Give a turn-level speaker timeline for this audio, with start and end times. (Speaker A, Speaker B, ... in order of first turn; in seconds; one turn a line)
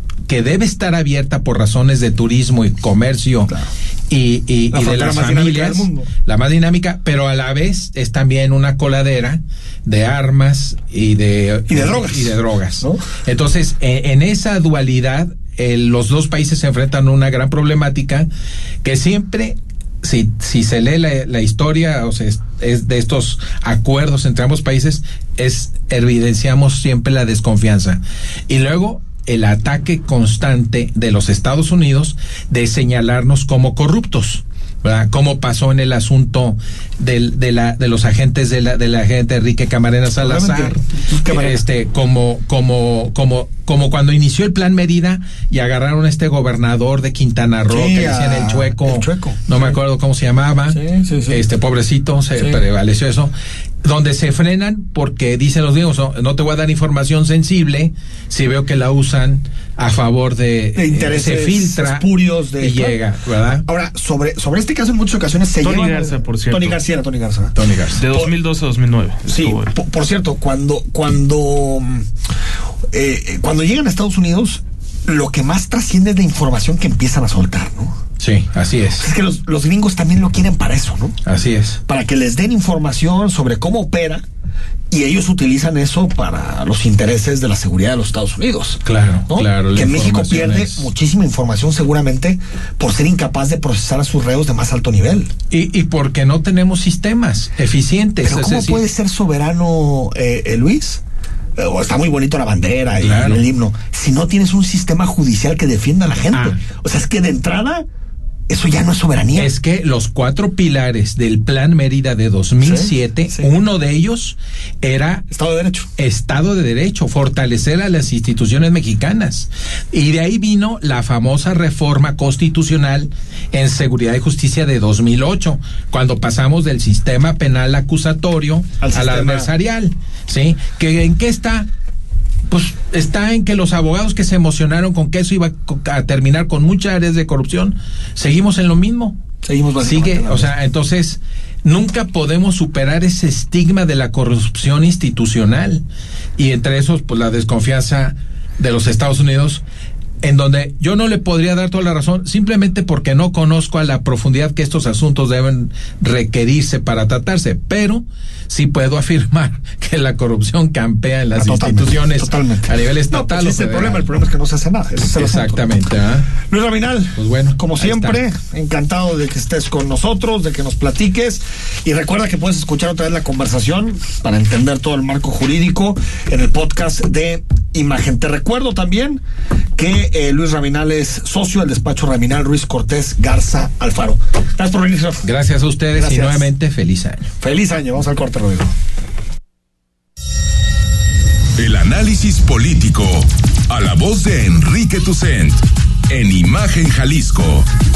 Speaker A: 0.3-3.5
Speaker A: 4.1-18.3
Speaker B: 4.7-6.1
Speaker B: 11.7-13.0
Speaker A: 18.8-53.3
Speaker B: 40.2-41.6
Speaker B: 47.7-49.7
Speaker B: 50.7-51.4
Speaker B: 52.3-52.6
Speaker A: 53.8-63.6
Speaker B: 60.7-63.0
Speaker B: 63.6-67.5
Speaker C: 65.6-66.8
Speaker A: 67.5-68.0
Speaker C: 67.9-69.7
Speaker B: 69.2-72.0
Speaker B: 72.9-77.9
Speaker A: 78.2-79.1
Speaker B: 79.0-81.1
Speaker A: 81.2-81.8
Speaker B: 81.9-84.2
Speaker B: 84.9-95.3
Speaker A: 88.8-90.9
Speaker A: 95.5-98.8
Speaker B: 98.2-101.0
Speaker B: 101.6-107.8
Speaker A: 103.0-103.5
Speaker A: 106.3-106.6
Speaker B: 108.5-109.5
Speaker A: 109.3-115.2
Speaker B: 112.6-113.5
Speaker B: 115.3-115.9
Speaker A: 116.0-131.7
Speaker B: 128.8-129.5
Speaker A: 132.5-139.2
Speaker B: 139.4-140.5
Speaker A: 139.8-145.8
Speaker A: 146.4-149.6
Speaker A: 150.2-164.1
Speaker B: 161.4-165.7
Speaker A: 165.0-166.3
Speaker B: 166.4-179.2
Speaker A: 167.1-168.2
Speaker B: 179.8-185.2
Speaker A: 185.2-187.3
Speaker B: 185.9-186.5
Speaker B: 187.4-188.7
Speaker D: 191.6-195.6
Speaker D: 196.1-197.7